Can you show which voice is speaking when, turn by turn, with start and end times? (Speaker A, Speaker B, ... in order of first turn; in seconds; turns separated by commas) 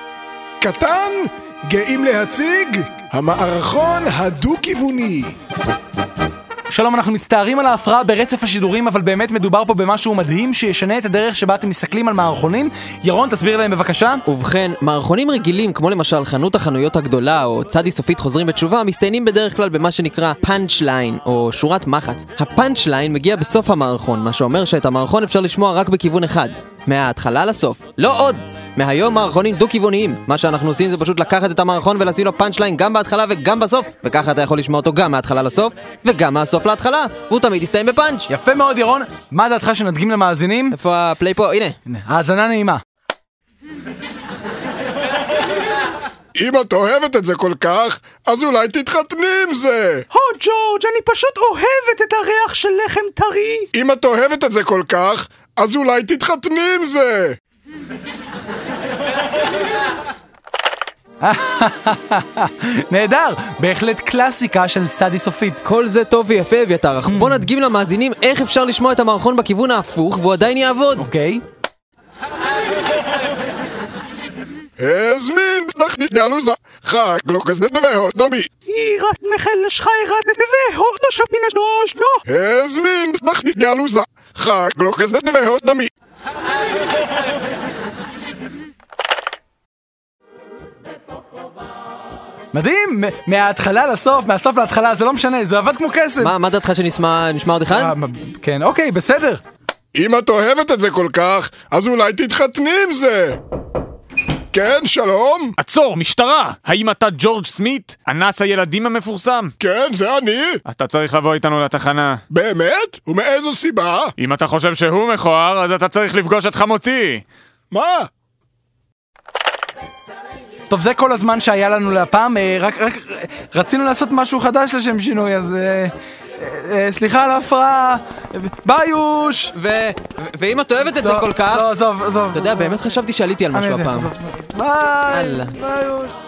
Speaker A: 0.6-5.3, Speaker B: 6.7-14.2, Speaker C: 14.3-38.3, Speaker B: 38.3-40.8, Speaker C: 40.7-41.8, Speaker B: 41.9-42.8, Speaker A: 46.4-50.1, Speaker D: 50.1-53.7, Speaker A: 53.7-57.4, Speaker B: 61.2-65.6, Speaker C: 65.6-71.0, Speaker B: 67.1-67.5, Speaker B: 71.0-71.4, Speaker A: 74.8-78.5, Speaker D: 78.7-82.2, Speaker A: 82.3-85.9, Speaker B: 92.5-96.3, Speaker C: 96.2-97.9, Speaker B: 97.7-99.4, Speaker A: 99.9-103.4, Speaker A: 104.5-105.5, Speaker E: 105.6-109.5, Speaker A: 109.6-110.6, Speaker E: 110.7-112.2, Speaker A: 112.3-114.2, Speaker E: 114.2-117.3, Speaker A: 117.7-118.1, Speaker B: 120.7-129.5, Speaker C: 129.6-131.7, Speaker B: 130.9-132.9, Speaker C: 132.3-134.1, Speaker B: 133.5-136.2, Speaker C: 135.1-135.6